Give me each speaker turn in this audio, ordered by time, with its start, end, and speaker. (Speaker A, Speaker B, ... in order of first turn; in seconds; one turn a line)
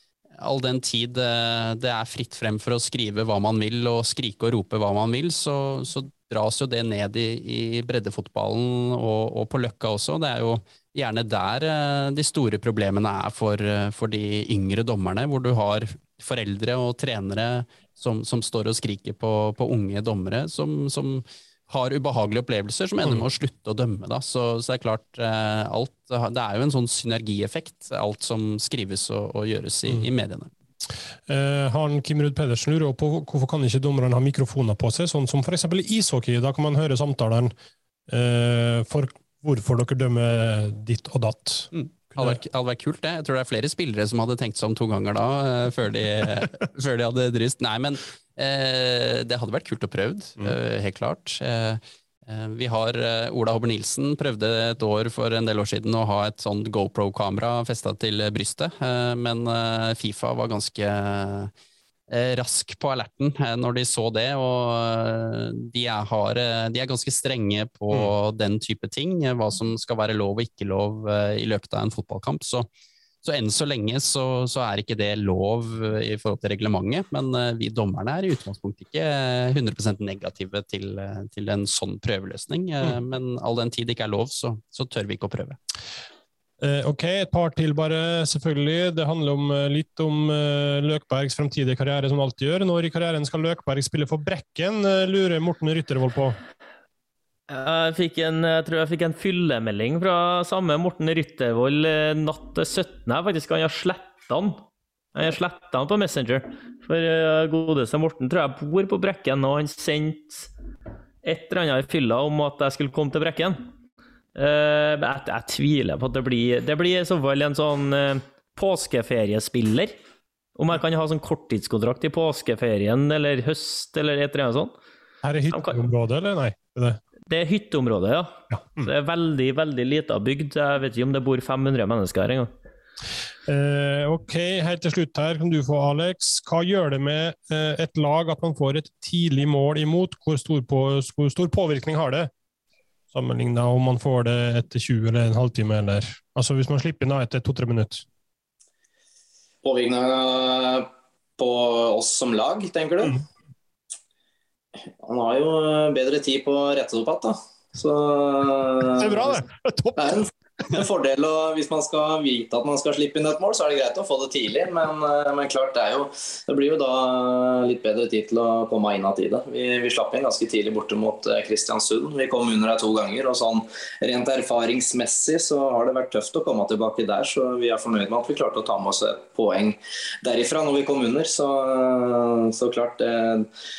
Speaker A: 0.4-30.5
Speaker B: 31.3-37.5
Speaker B: 38.1-42.4
Speaker A: 41.7-61.5
Speaker A: 62.1-72.7
Speaker A: 73.2-85.6
Speaker B: 86.6-96.4
Speaker C: 97.5-110.5
Speaker C: 111.2-113.7
Speaker C: 114.3-119.9
Speaker C: 120.5-124.7
Speaker B: 125.2-127.0
Speaker C: 125.5-125.8
Speaker C: 127.3-132.5
Speaker B: 133.4-142.3
Speaker B: 143.1-148.0
Speaker D: 149.6-153.2
Speaker D: 155.0-159.4
Speaker B: 158.9-160.3
Speaker D: 160.0-183.5